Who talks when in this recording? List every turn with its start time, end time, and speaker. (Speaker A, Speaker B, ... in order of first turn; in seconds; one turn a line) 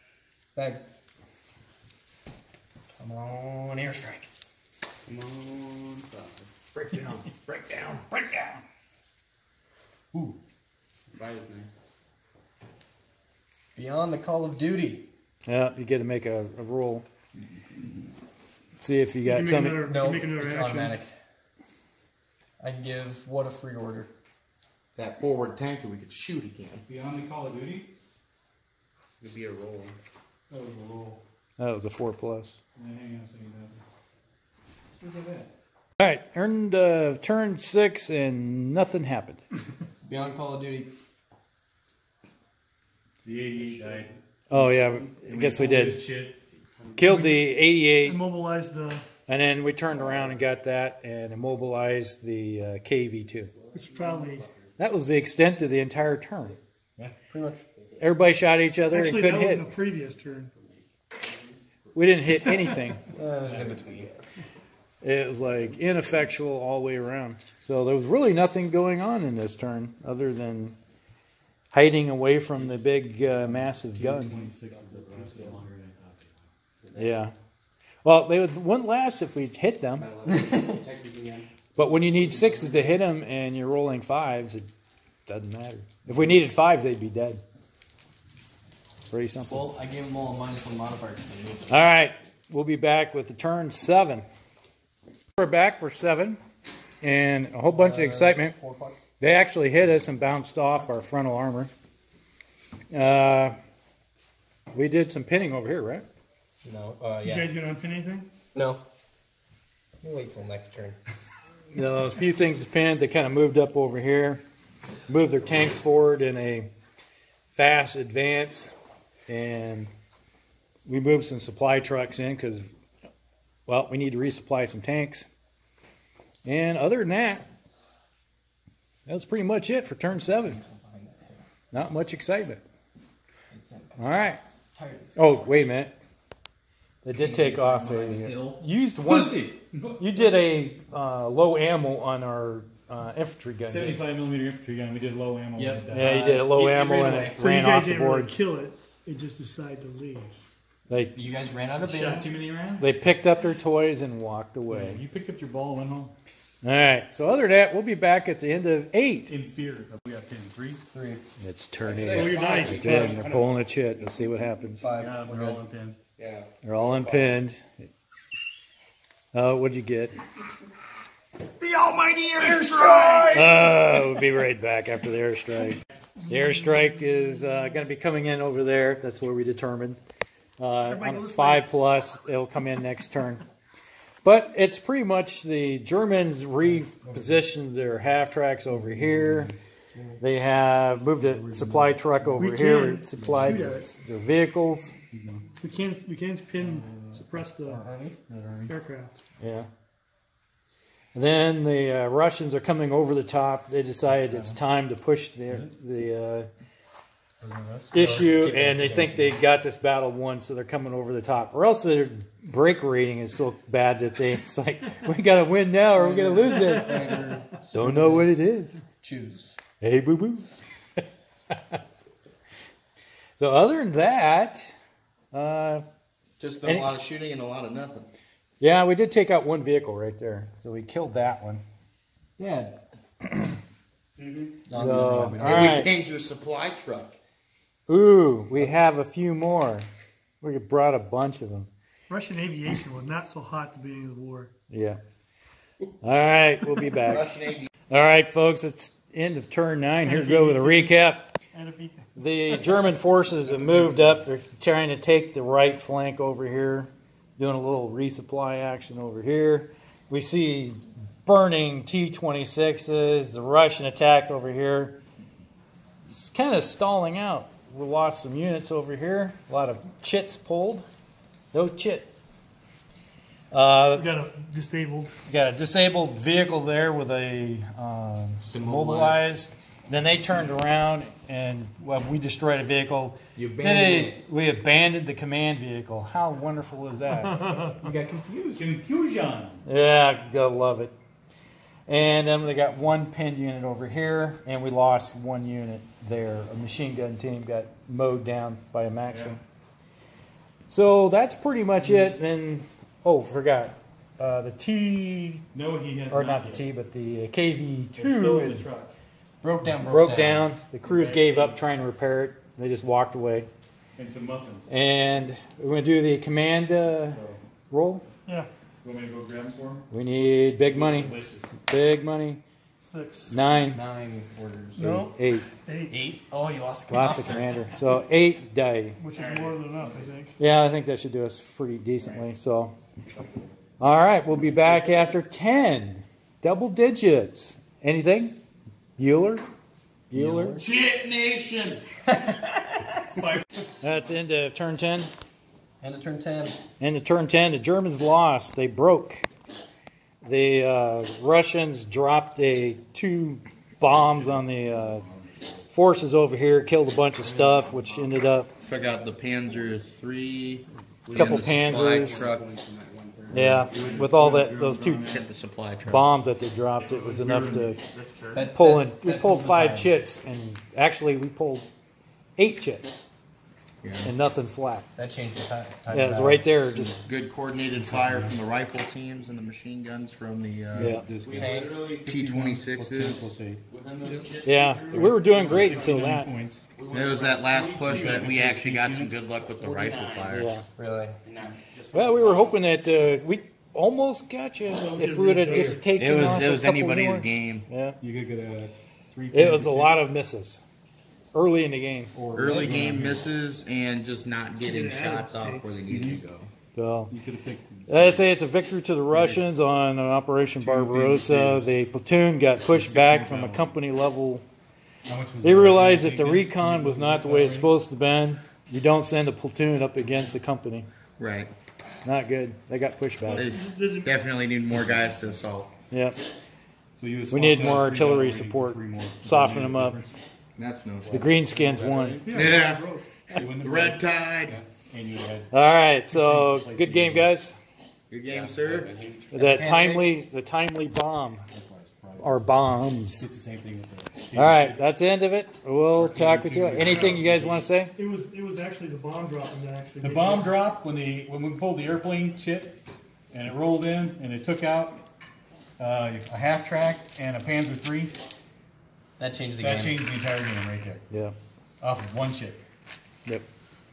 Speaker A: 0.5-0.9
Speaker A: 3.0-4.3
Speaker B: 5.1-5.9
Speaker C: 6.7-8.2
Speaker A: 13.7-15.1
Speaker D: 15.4-17.0
Speaker D: 18.8-19.9
Speaker E: 19.2-21.0
Speaker A: 19.8-21.1
Speaker A: 22.6-24.1
Speaker C: 24.9-26.8
Speaker B: 26.9-27.9
Speaker C: 29.2-30.0
Speaker B: 30.5-31.2
Speaker D: 31.6-32.6
Speaker B: 32.8-33.8
Speaker B: 35.0-35.5
Speaker D: 36.0-39.4
Speaker A: 40.0-40.9
Speaker B: 43.2-46.4
Speaker D: 44.5-46.0
Speaker D: 46.9-48.2
Speaker E: 47.0-47.5
Speaker E: 48.0-49.0
Speaker D: 49.3-53.5
Speaker E: 53.7-54.5
Speaker D: 54.8-56.6
Speaker A: 57.0-57.6
Speaker D: 58.0-59.7
Speaker E: 58.9-60.5
Speaker D: 61.9-63.0
Speaker A: 63.1-64.1
Speaker D: 65.0-70.7
Speaker D: 71.7-74.4
Speaker B: 73.9-76.4
Speaker D: 77.0-77.3
Speaker D: 78.0-80.1
Speaker A: 80.2-80.9
Speaker D: 81.8-84.7
Speaker D: 85.3-87.4
Speaker D: 89.1-89.7
Speaker A: 89.5-91.7
Speaker D: 91.7-94.2
Speaker D: 95.4-96.4
Speaker D: 97.0-98.5
Speaker A: 97.7-99.0
Speaker D: 99.2-101.7
Speaker D: 102.9-103.5
Speaker D: 104.7-106.0
Speaker A: 106.6-107.5
Speaker E: 107.2-108.3
Speaker A: 108.5-108.8
Speaker A: 110.0-111.0
Speaker D: 111.7-114.4
Speaker D: 115.1-116.7
Speaker D: 117.5-118.7
Speaker D: 119.3-119.9
Speaker D: 120.9-122.7
Speaker D: 123.7-125.2
Speaker D: 126.4-127.4
Speaker D: 129.1-130.6
Speaker A: 130.4-131.4
Speaker D: 131.7-132.6
Speaker A: 133.5-135.5
Speaker D: 134.0-134.4
Speaker D: 135.2-135.9
Speaker D: 137.0-139.4
Speaker A: 137.1-138.6
Speaker B: 139.0-140.0
Speaker D: 140.0-144.0
Speaker B: 143.6-146.2
Speaker A: 145.6-147.5
Speaker D: 145.9-148.3
Speaker E: 147.3-150.4
Speaker D: 150.9-151.1
Speaker A: 151.1-152.3
Speaker B: 151.8-152.9
Speaker D: 152.8-155.0
Speaker B: 154.7-156.1
Speaker D: 156.6-159.3
Speaker B: 159.3-160.8
Speaker A: 160.9-161.2
Speaker D: 161.4-164.8
Speaker C: 161.8-163.2
Speaker E: 162.1-163.4
Speaker A: 164.8-165.6
Speaker B: 164.9-166.0
Speaker C: 166.2-167.4
Speaker D: 166.6-167.6
Speaker D: 169.3-170.1
Speaker C: 171.9-173.5
Speaker D: 173.3-180.0
Speaker D: 180.6-183.4
Speaker E: 180.8-181.6
Speaker D: 184.2-189.5
Speaker D: 190.2-194.9
Speaker B: 191.2-192.4
Speaker E: 192.4-193.9
Speaker B: 193.2-193.7
Speaker B: 195.1-195.5
Speaker E: 195.6-197.8
Speaker B: 196.6-197.3
Speaker A: 197.6-198.2
Speaker B: 198.3-198.7
Speaker E: 198.7-199.2
Speaker D: 199.4-199.7
Speaker D: 201.1-206.5
Speaker B: 204.3-204.5
Speaker B: 207.4-207.8
Speaker A: 207.9-209.4
Speaker D: 207.9-217.1
Speaker A: 215.9-218.3
Speaker D: 217.7-218.8
Speaker A: 219.0-219.6
Speaker D: 219.8-220.5
Speaker D: 221.0-221.8
Speaker D: 223.4-224.7
Speaker D: 225.3-225.8
Speaker C: 226.4-228.1
Speaker D: 226.6-226.9
Speaker D: 228.6-231.6
Speaker A: 232.4-232.8
Speaker B: 234.2-234.5
Speaker A: 234.7-235.9
Speaker D: 234.7-235.9
Speaker C: 235.4-237.2
Speaker D: 237.9-239.8
Speaker D: 240.4-241.7
Speaker E: 242.1-244.5
Speaker D: 244.7-245.0
Speaker D: 246.0-251.3
Speaker C: 247.0-247.7
Speaker E: 250.0-251.0
Speaker E: 251.5-252.1
Speaker D: 252.2-265.0
Speaker D: 266.1-270.8
Speaker D: 271.5-272.1
Speaker D: 273.5-274.1
Speaker E: 273.9-275.1
Speaker D: 275.3-287.4
Speaker A: 278.4-279.2
Speaker A: 283.4-284.2
Speaker A: 287.6-288.7
Speaker B: 288.6-289.6
Speaker D: 289.6-290.9
Speaker D: 291.9-299.4
Speaker B: 299.1-299.4
Speaker D: 300.7-305.4
Speaker B: 305.5-306.6
Speaker D: 306.1-308.7
Speaker B: 307.9-308.9
Speaker A: 309.4-310.5
Speaker D: 309.8-313.5
Speaker B: 310.9-311.4
Speaker B: 314.0-314.7
Speaker D: 314.7-318.0
Speaker B: 317.1-317.4
Speaker B: 318.8-319.8
Speaker D: 319.9-321.1
Speaker B: 320.6-321.5
Speaker D: 321.7-322.4
Speaker E: 322.8-323.4
Speaker D: 323.3-323.8
Speaker A: 323.7-324.9
Speaker E: 324.8-326.0
Speaker D: 324.9-325.4
Speaker A: 325.9-327.5
Speaker D: 326.9-329.0
Speaker E: 329.0-330.4
Speaker B: 329.1-329.8
Speaker D: 330.4-332.7
Speaker D: 333.8-338.4
Speaker D: 339.0-339.4
Speaker D: 340.1-340.6
Speaker A: 340.1-340.6
Speaker C: 340.6-341.8
Speaker D: 343.8-345.1
Speaker A: 345.8-346.6
Speaker D: 346.8-349.2
Speaker D: 350.2-355.0
Speaker B: 354.1-355.2
Speaker D: 355.7-358.5
Speaker C: 358.6-362.5
Speaker D: 361.1-362.2
Speaker A: 361.2-363.7
Speaker D: 363.3-365.1
Speaker B: 363.6-365.3
Speaker C: 365.0-366.1
Speaker D: 365.9-367.8
Speaker B: 366.8-367.8
Speaker C: 367.9-368.4
Speaker A: 368.3-369.9
Speaker D: 368.5-371.7
Speaker D: 372.4-373.0
Speaker C: 373.8-374.1
Speaker D: 374.0-374.9
Speaker A: 374.9-376.5
Speaker D: 375.9-377.0
Speaker C: 377.0-381.0
Speaker B: 377.8-378.4
Speaker B: 380.7-386.7
Speaker D: 380.7-381.1
Speaker A: 381.2-382.0
Speaker C: 381.9-383.3
Speaker F: 383.7-384.6
Speaker E: 384.1-384.3
Speaker D: 384.4-386.3
Speaker E: 384.9-385.7
Speaker F: 386.8-387.5
Speaker C: 386.9-390.6
Speaker B: 387.4-389.2
Speaker D: 390.3-390.6
Speaker A: 390.8-391.2
Speaker F: 391.3-392.4
Speaker D: 391.9-398.0
Speaker E: 394.7-395.8
Speaker C: 395.4-397.7
Speaker B: 398.0-400.0
Speaker D: 399.3-400.6
Speaker D: 401.3-402.1
Speaker B: 402.1-403.2
Speaker C: 402.3-406.5
Speaker E: 404.6-405.8
Speaker B: 405.8-406.2
Speaker D: 406.7-407.1
Speaker B: 407.1-408.2
Speaker D: 407.9-414.4
Speaker B: 409.1-409.4
Speaker B: 410.6-411.7
Speaker B: 412.6-413.7
Speaker B: 415.1-417.7
Speaker D: 415.4-420.9
Speaker C: 421.2-421.5
Speaker D: 422.0-423.5
Speaker E: 423.2-424.1
Speaker C: 423.4-425.7
Speaker B: 424.7-425.4
Speaker D: 425.9-426.2
Speaker B: 427.0-430.2
Speaker D: 427.3-430.0
Speaker C: 430.6-431.3
Speaker B: 431.1-432.4
Speaker D: 431.1-432.2
Speaker E: 432.2-433.2
Speaker C: 432.3-432.9
Speaker B: 433.3-435.5
Speaker C: 433.4-434.6
Speaker D: 435.5-437.6
Speaker B: 436.1-437.3
Speaker C: 438.1-438.9
Speaker D: 439.3-441.4
Speaker A: 439.3-440.1
Speaker B: 441.5-442.4
Speaker D: 442.2-443.2
Speaker B: 443.0-444.8
Speaker D: 444.3-447.9
Speaker B: 445.9-447.7
Speaker E: 446.8-447.1
Speaker E: 447.9-450.5
Speaker B: 450.0-452.8
Speaker B: 453.3-455.0
Speaker B: 455.8-458.1
Speaker A: 459.2-460.1
Speaker B: 459.6-461.0
Speaker D: 461.1-461.3
Speaker B: 461.8-462.6